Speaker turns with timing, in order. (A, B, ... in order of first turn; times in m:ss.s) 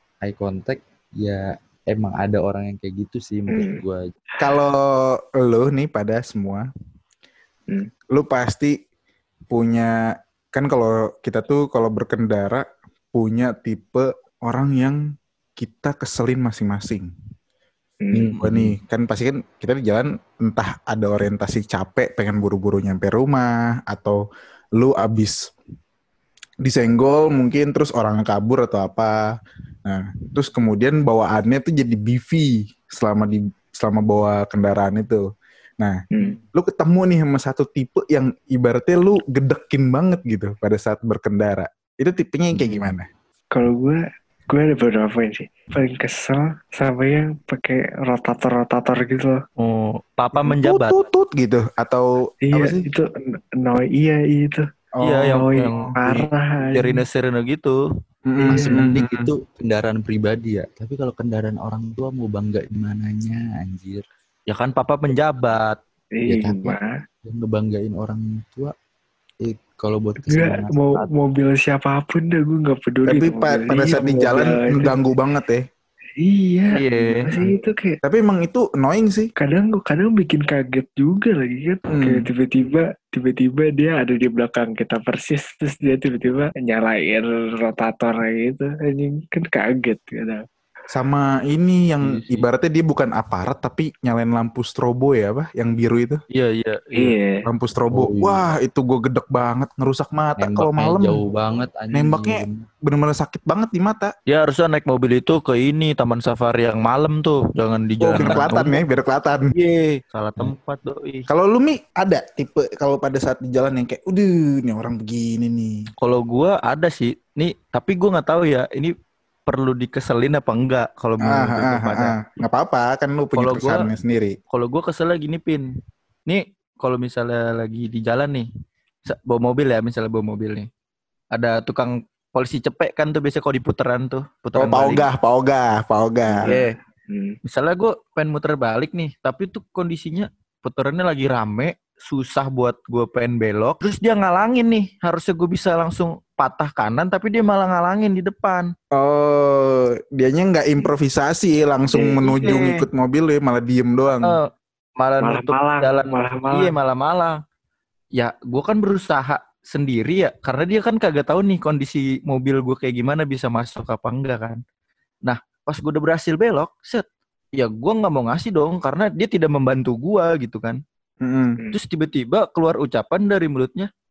0:00.2-0:04.1 A
0:03.5-0:03.8 B
0:04.4-0:06.7 C
0:08.1-0:08.8 C
0:09.5-0:09.9 C
0:10.5-0:15.0 C
0:15.6-0:17.1 C
0:18.0-0:18.3 B
0:18.1-0:18.8 A
0:18.4-0:24.2 C
0:24.8-0:25.5 C
0:26.6-0:29.2 C
0:29.8-0:35.2 C
0:36.1-0:36.4 B
0:36.5-0:43.1 C
0:42.5-0:42.9 A
0:43.5-0:49.4 B
0:49.6-0:51.0 D
0:50.4-0:52.8 C
0:52.4-0:54.7 B
0:55.0-0:55.9 C
0:55.0-0:57.8 D
0:55.2-0:57.0 B
0:58.3-0:59.3 C
0:58.5-1:04.0 A
0:58.7-0:59.0 D
1:04.5-1:05.8 D
1:06.2-1:06.9 B
1:06.2-1:08.7 A
1:09.4-1:11.1 A
1:10.3-1:14.9 B
1:13.1-1:15.6 C
1:16.2-1:18.0 B
1:16.7-1:17.2 D
1:17.0-1:19.3 C
1:19.4-1:30.4 B
1:21.9-1:22.2 C
1:30.9-1:36.2 C
1:32.0-1:32.5 A
1:36.3-1:37.1 D
1:36.9-1:37.4 B
1:37.4-1:41.2 C
1:37.9-1:38.5 A
1:40.4-1:42.6 A
1:41.9-1:44.1 C
1:44.3-1:48.8 D
1:48.0-1:49.5 C
1:49.5-1:51.3 D
1:51.3-1:55.8 C
1:56.0-1:58.9 D
1:59.5-2:02.1 D
2:01.2-2:04.4 C
2:03.4-2:03.9 D
2:04.5-2:05.6 D
2:06.3-2:08.4 D
2:09.1-2:10.7 D
2:11.3-2:15.1 D
2:14.6-2:16.5 C
2:16.4-2:17.4 B
2:16.4-2:16.7 D
2:17.4-2:28.7 D
2:28.9-2:34.4 C
2:32.0-2:32.8 D
2:35.0-2:37.4 D
2:35.2-2:36.7 B
2:38.2-2:44.6 D
2:45.2-2:47.0 D
2:47.6-2:50.8 D
2:51.2-2:51.6 C
2:51.7-2:53.9 D